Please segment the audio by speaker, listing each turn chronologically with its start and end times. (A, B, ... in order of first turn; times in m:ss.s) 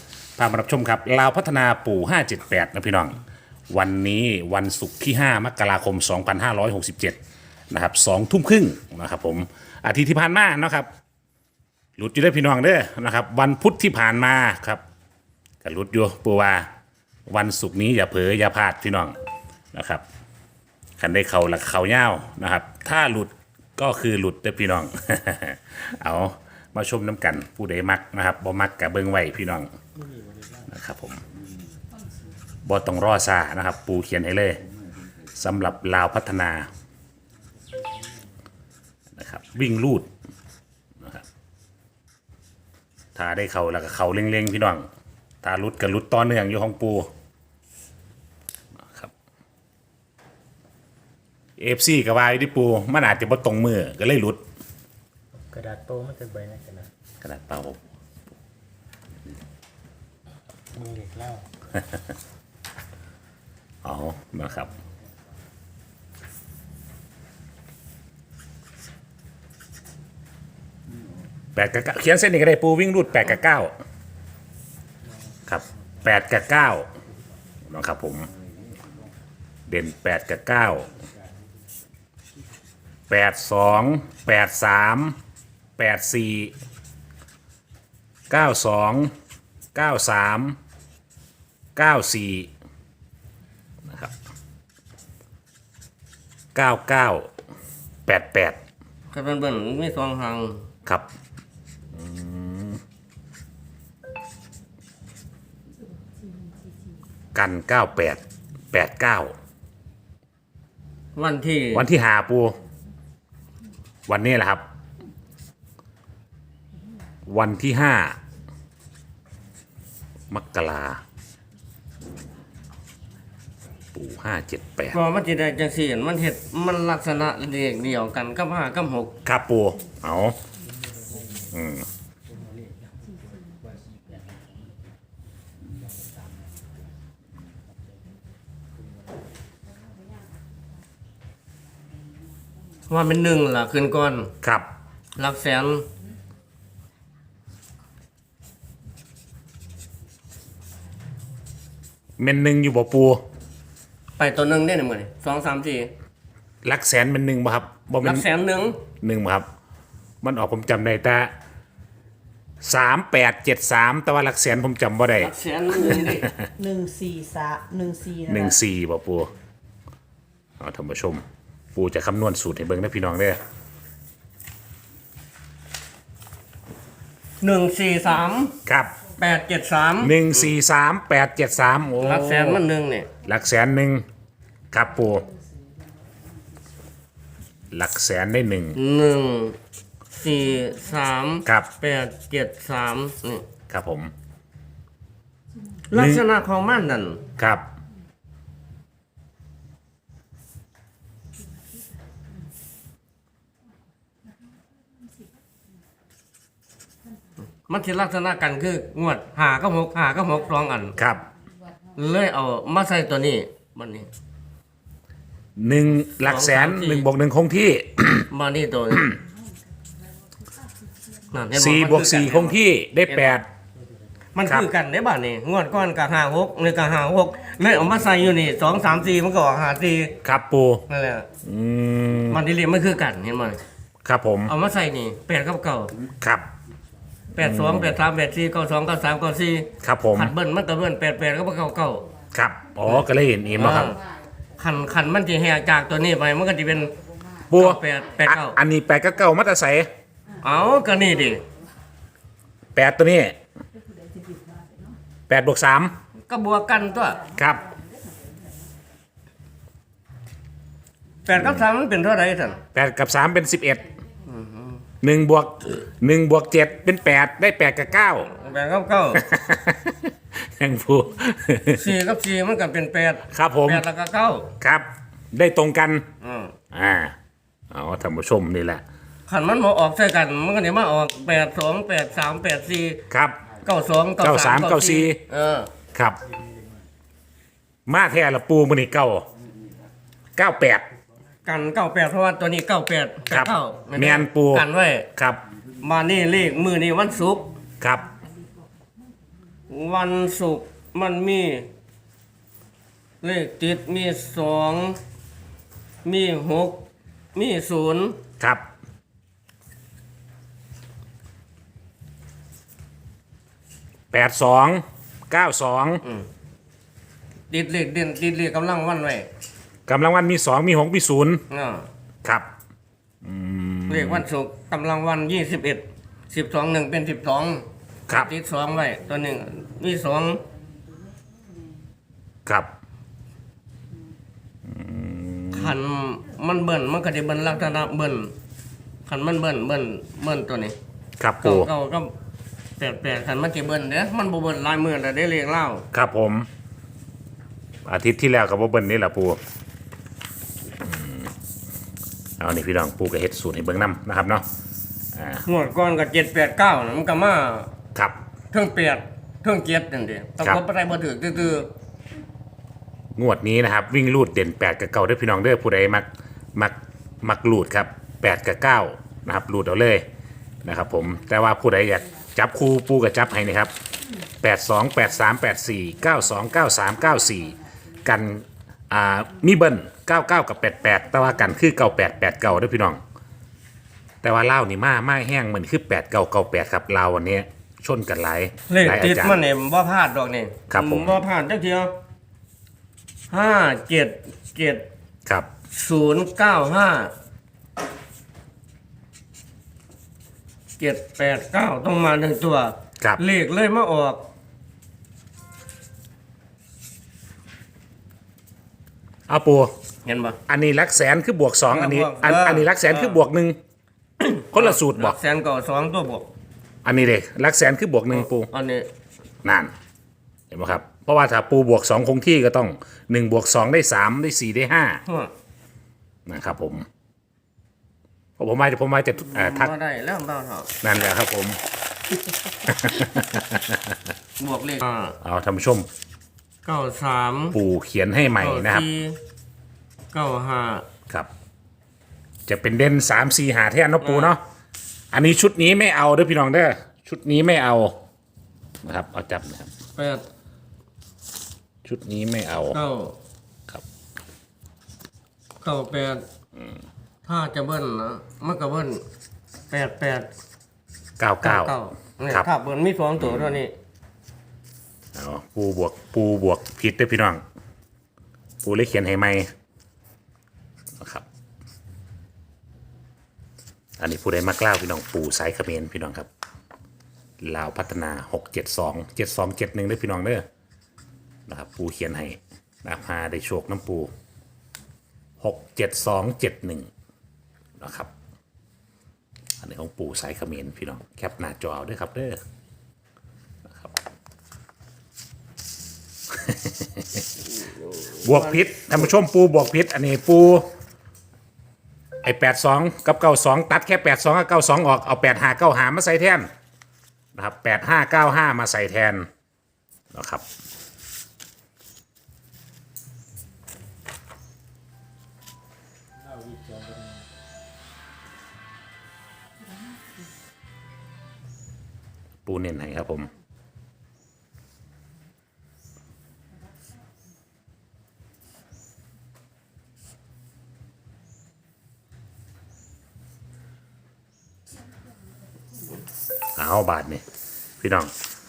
0:00.4-0:03.2 A
0:03.7-0:07.2 A
0:07.7-0:10.9 A
0:12.0-0:14.8 A
0:15.6-0:16.7 A
0:17.3-0:19.1 A
0:19.7-0:20.0 A
0:21.0-0:29.7 A
0:30.7-0:31.2 A
0:32.6-0:34.6 A
0:35.3-0:36.7 A
0:39.2-0:40.1 A
0:43.1-0:44.9 A
0:45.4-0:47.1 A
0:48.8-0:49.1 A
0:51.6-0:54.4 A
0:55.5-0:56.9 B
0:57.2-0:57.8 A
1:00.7-1:01.4 B
1:03.8-1:04.7 A
1:11.5-1:13.7 A
1:15.5-1:16.9 A
1:17.7-1:18.3 A
1:19.7-1:20.9 A
1:23.1-1:25.2 A
1:25.8-1:26.5 A
1:28.3-1:29.1 A
1:29.7-1:30.6 A
1:31.8-1:32.5 A
1:33.9-1:34.1 A
1:36.5-1:37.3 A
1:38.0-1:38.6 A
1:39.1-1:40.6 C
1:41.9-1:42.8 A
1:47.3-1:49.3 A
1:51.1-1:51.9 C
1:51.7-1:52.6 A
1:54.1-1:54.6 A
1:57.3-1:58.2 A
2:00.3-2:01.0 A
2:03.9-2:05.0 A
2:04.9-2:09.2 C
2:09.2-2:10.4 A
2:11.5-2:11.8 A
2:12.4-2:14.7 B
2:22.9-2:24.3 C
2:24.4-2:24.7 A
2:25.2-2:25.9 C
2:32.2-2:33.2 A
2:34.2-2:35.9 C
2:36.6-2:38.2 A
2:38.0-2:38.8 C
2:39.0-2:39.5 A
2:40.2-2:41.3 A
2:42.6-2:45.3 A
2:45.2-2:46.3 C
2:45.8-2:46.5 A
2:46.6-2:48.5 D
2:48.3-2:49.3 A
2:50.6-2:51.2 A
2:51.7-2:53.4 A
2:57.4-2:58.6 C
2:58.6-2:58.9 A
2:59.2-3:00.5 C
3:00.0-3:02.6 A
3:02.0-3:03.1 C
3:03.2-3:04.0 A
3:04.7-3:05.3 A
3:07.7-3:08.8 A
3:08.8-3:09.6 C
3:10.2-3:13.4 C
3:13.7-3:14.1 A
3:15.9-3:17.2 C
3:15.9-3:16.2 A
3:17.4-3:17.6 A
3:27.7-3:31.0 C
3:31.0-3:31.2 A
3:31.9-3:34.1 C
3:35.6-3:38.3 A
3:36.2-3:37.1 C
3:38.3-3:39.1 C
3:41.3-3:42.6 C
3:41.5-3:43.4 A
3:43.1-3:43.4 C
3:44.3-3:50.2 C
3:50.2-3:50.8 A
3:50.9-3:51.3 C
3:51.4-3:52.4 A
3:52.3-3:53.6 C
3:54.0-3:54.5 A
3:54.5-3:56.0 C
3:56.2-3:56.5 A
3:57.3-4:02.1 C
3:57.4-3:58.0 A
3:59.8-4:00.3 A
4:02.3-4:04.0 A
4:03.6-4:04.0 C
4:04.6-4:07.0 C
4:07.5-4:08.6 C
4:07.5-4:09.9 A
4:10.4-4:11.4 C
4:12.7-4:13.4 A
4:14.3-4:14.5 D
4:15.3-4:15.9 A
4:16.3-4:17.3 C
4:17.3-4:17.6 A
4:21.2-4:22.6 C
4:22.7-4:23.9 A
4:24.2-4:24.8 C
4:25.0-4:28.3 A
4:28.4-4:29.2 C
4:29.1-4:31.9 A
4:31.8-4:34.5 C
4:33.3-4:33.8 A
4:34.6-4:36.0 A
4:36.2-4:36.5 C
4:36.7-4:37.1 A
4:37.7-4:38.8 A
4:39.3-4:43.0 C
4:43.1-4:43.4 A
4:43.6-4:45.7 C
4:44.2-4:45.2 A
4:45.9-4:46.2 A
4:47.9-4:49.2 A
4:50.4-4:50.9 A
4:51.4-4:55.1 C
4:53.3-4:55.4 A
4:55.8-4:57.5 C
4:59.7-5:01.7 C
5:03.2-5:05.0 C
5:06.0-5:08.2 C
5:08.4-5:08.6 A
5:14.1-5:16.0 A
5:17.5-5:19.3 C
5:19.9-5:21.4 A
5:21.5-5:21.8 C
5:23.2-5:24.2 A
5:23.9-5:30.4 C
5:34.6-5:35.8 A
5:35.5-5:38.3 C
5:39.0-5:40.8 C
5:41.2-5:41.7 A
5:41.4-5:42.1 C
5:42.8-5:45.8 C
5:45.9-5:46.5 A
5:47.8-5:49.4 A
5:50.8-5:51.3 A
5:52.4-5:54.4 A
5:55.1-5:55.4 A
5:55.4-5:57.7 C
5:58.5-6:01.7 C
6:03.2-6:10.0 A
6:10.6-6:13.7 A
6:14.4-6:23.0 A
6:24.2-6:29.4 A
6:28.7-6:31.9 C
6:30.7-6:31.2 A
6:33.3-6:34.8 C
6:35.7-6:37.1 C
6:40.8-6:44.3 C
6:49.3-6:49.7 A
6:50.0-6:50.4 C
6:50.5-6:53.6 A
6:51.7-6:53.2 C
6:54.2-6:56.3 C
6:54.5-6:55.2 A
6:56.8-6:58.5 A
6:58.1-6:58.9 C
6:59.4-6:59.7 A
7:00.5-7:05.0 A
7:05.0-7:05.3 C
7:06.3-7:06.8 A
7:08.4-7:09.7 A
7:09.3-7:10.7 C
7:10.8-7:11.6 A
7:12.6-7:14.0 A
7:14.4-7:15.2 C
7:15.2-7:15.9 A
7:16.6-7:17.6 C
7:17.5-7:18.8 A
7:18.3-7:19.2 C
7:20.1-7:20.9 C
7:22.5-7:24.4 A
7:24.0-7:24.3 C
7:25.1-7:28.0 A
7:28.8-7:29.7 A
7:30.0-7:30.2 C
7:31.8-7:32.8 A
7:32.7-7:33.2 C
7:35.6-7:36.2 C
7:37.2-7:39.0 C
7:39.7-7:40.3 C
7:41.2-7:41.7 A
7:41.4-7:43.7 C
7:43.2-7:43.6 A
7:45.1-7:47.4 A
7:48.6-7:49.5 A
7:51.0-7:51.2 A
7:54.0-7:56.3 A
7:57.4-8:00.4 A
8:01.5-8:04.1 A
8:05.4-8:06.9 A
8:07.8-8:08.1 A
8:09.6-8:12.4 A
8:16.3-8:17.2 A
8:17.9-8:18.9 C
8:18.2-8:20.7 A
8:22.2-8:26.5 A
8:27.3-8:29.3 A
8:30.1-8:30.4 A
8:36.2-8:37.2 B
8:42.4-8:43.3 A
8:56.6-8:57.2 A
8:57.8-8:58.1 A